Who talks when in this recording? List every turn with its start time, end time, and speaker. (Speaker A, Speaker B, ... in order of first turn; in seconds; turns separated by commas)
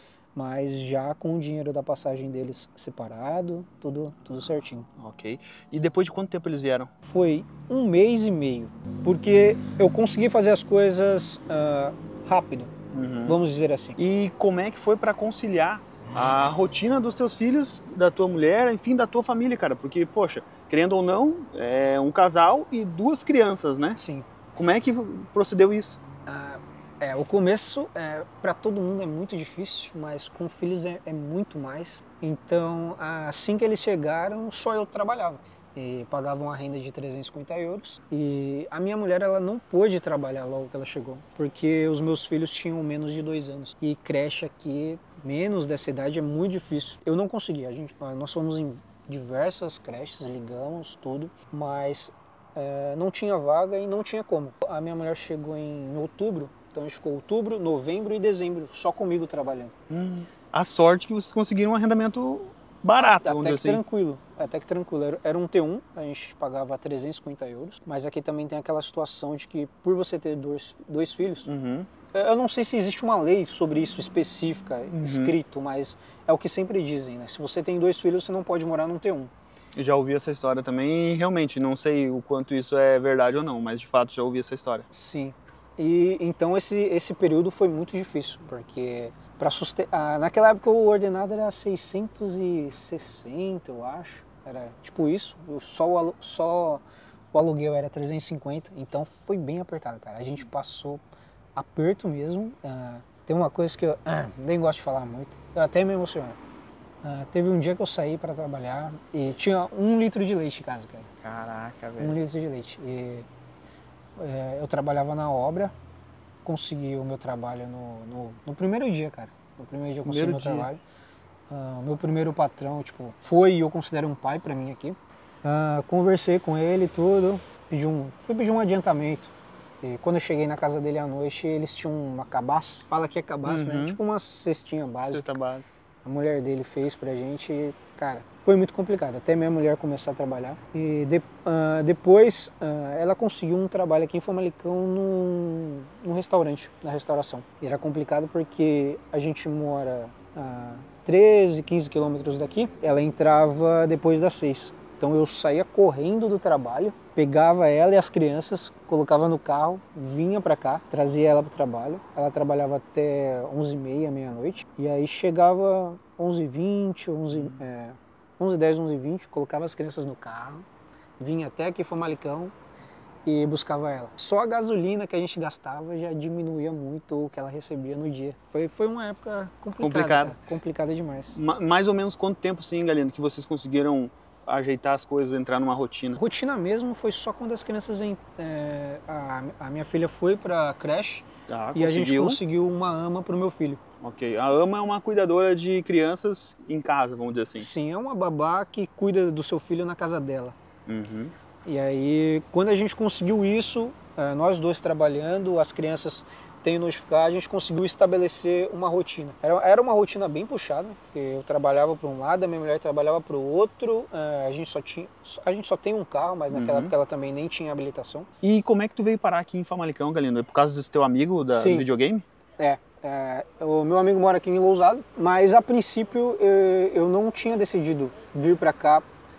Speaker A: 0.3-4.9, Speaker B: 5.0-6.9, Speaker A: 7.0-12.7, Speaker B: 12.9-13.4, Speaker A: 13.2-14.0, Speaker B: 14.0-24.0, Speaker A: 23.9-24.3, Speaker B: 24.5-26.0, Speaker A: 26.2-59.7, Speaker B: 59.9-63.8, Speaker A: 63.0-71.5, Speaker B: 71.4-71.9, Speaker A: 72.1-79.3, Speaker B: 74.9-75.4, Speaker B: 79.7-84.9, Speaker A: 84.9-101.0, Speaker A: 101.5-106.4, Speaker A: 107.0-111.1, Speaker B: 111.2-112.2, Speaker A: 112.0-113.3, Speaker A: 114.2-115.7, Speaker A: 116.4-120.8, Speaker B: 120.0-120.7, Speaker A: 121.5-135.3, Speaker B: 133.4-134.0, Speaker B: 135.0-135.7, Speaker A: 136.0-170.7, Speaker B: 167.3-167.6, Speaker A: 171.2-172.5, Speaker A: 173.2-181.3, Speaker B: 179.8-180.4, Speaker B: 181.3-186.2, Speaker A: 186.2-193.8, Speaker B: 191.5-192.4, Speaker B: 194.0-197.7, Speaker A: 197.6-200.6, Speaker B: 200.9-201.3, Speaker A: 201.6-218.3, Speaker B: 216.5-216.9, Speaker B: 218.4-222.2, Speaker A: 221.5-221.8, Speaker A: 222.6-229.1